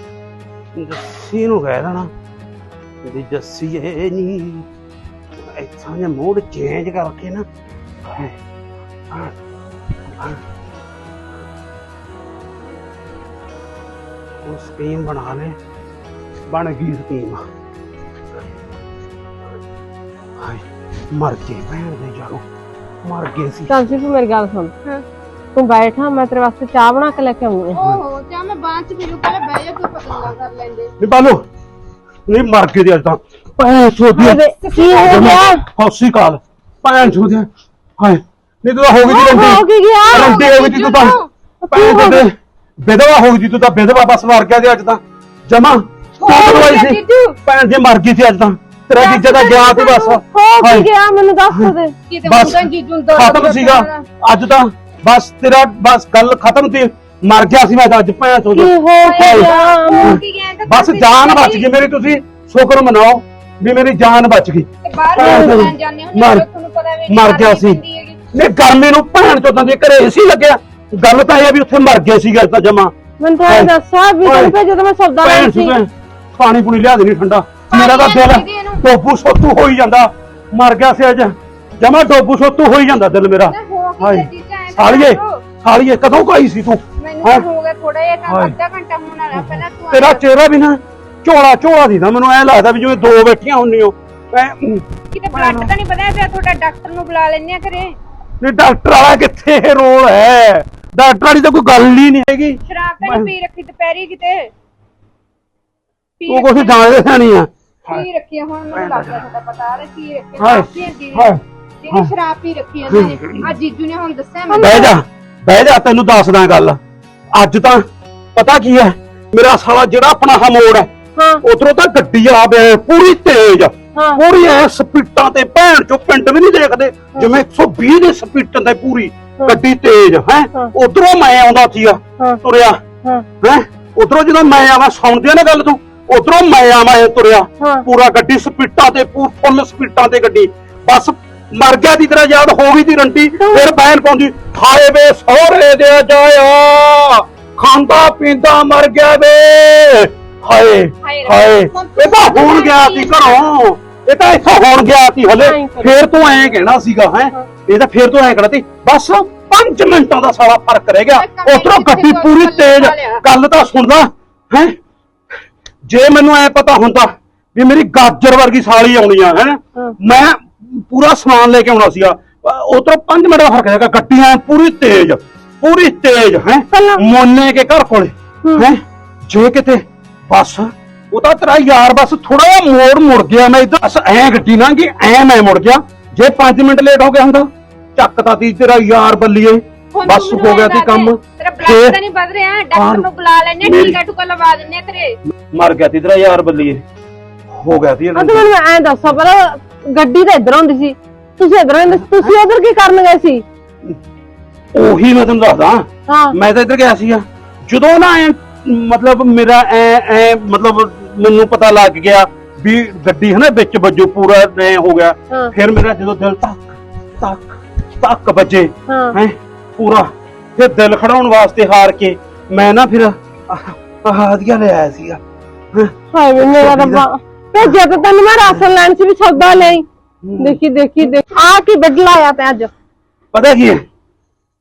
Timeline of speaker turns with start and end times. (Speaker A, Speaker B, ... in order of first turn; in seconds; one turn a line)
Speaker A: 0.7-2.1
Speaker A: 3.0-4.7
Speaker A: 5.4-7.5
Speaker A: 8.0-8.3
Speaker A: 14.4-15.6
Speaker A: 16.5-17.4
Speaker A: 20.4-22.4
Speaker A: 23.0-23.7
Speaker B: 23.7-24.7
Speaker B: 25.5-27.8
Speaker C: 27.7-30.9
Speaker A: 31.0-31.4
Speaker A: 32.3-34.4
Speaker B: 34.1-35.6
Speaker C: 34.2-35.2
Speaker A: 35.0-37.5
Speaker A: 38.0-41.2
Speaker B: 39.0-40.5
Speaker C: 40.1-41.3
Speaker B: 41.6-42.2
Speaker A: 41.7-50.9
Speaker C: 46.2-47.4
Speaker C: 49.0-49.6
Speaker B: 49.4-51.9
Speaker C: 52.1-54.0
Speaker A: 52.2-66.4
Speaker B: 58.5-60.2
Speaker C: 59.0-61.6
Speaker C: 64.8-68.2
Speaker B: 65.2-65.7
Speaker A: 67.1-67.8
Speaker A: 68.3-72.9
Speaker B: 73.2-75.8
Speaker A: 73.5-73.7
Speaker A: 74.2-74.5
Speaker A: 75.2-87.4
Speaker C: 77.7-78.8
Speaker C: 83.5-85.4
Speaker C: 87.0-90.2
Speaker A: 88.3-88.5
Speaker A: 89.3-95.7
Speaker C: 95.1-97.9
Speaker A: 98.4-103.3
Speaker C: 102.6-104.5
Speaker C: 106.2-106.8
Speaker A: 106.3-108.0
Speaker C: 107.9-114.9
Speaker A: 108.7-109.2
Speaker A: 110.4-111.4
Speaker A: 112.9-113.5
Speaker B: 114.5-114.9
Speaker A: 114.6-116.8
Speaker A: 117.3-117.8
Speaker A: 118.3-120.9
Speaker B: 121.2-121.4
Speaker A: 121.4-132.8
Speaker B: 123.9-124.2
Speaker A: 133.4-164.7
Speaker B: 137.6-137.8
Speaker B: 143.4-143.7
Speaker C: 151.0-153.4
Speaker B: 155.3-156.6
Speaker C: 161.2-163.2
Speaker A: 165.9-192.0
Speaker B: 176.7-177.0
Speaker C: 189.9-195.2
Speaker A: 192.7-193.1
Speaker A: 193.6-194.0
Speaker A: 195.5-196.8
Speaker A: 197.5-198.5
Speaker B: 198.2-203.4
Speaker A: 204.7-216.6
Speaker B: 206.1-206.4
Speaker A: 217.2-225.2
Speaker B: 218.9-219.2
Speaker A: 225.7-227.0
Speaker B: 226.1-229.8
Speaker A: 230.2-230.6
Speaker B: 230.4-232.7
Speaker A: 233.3-233.8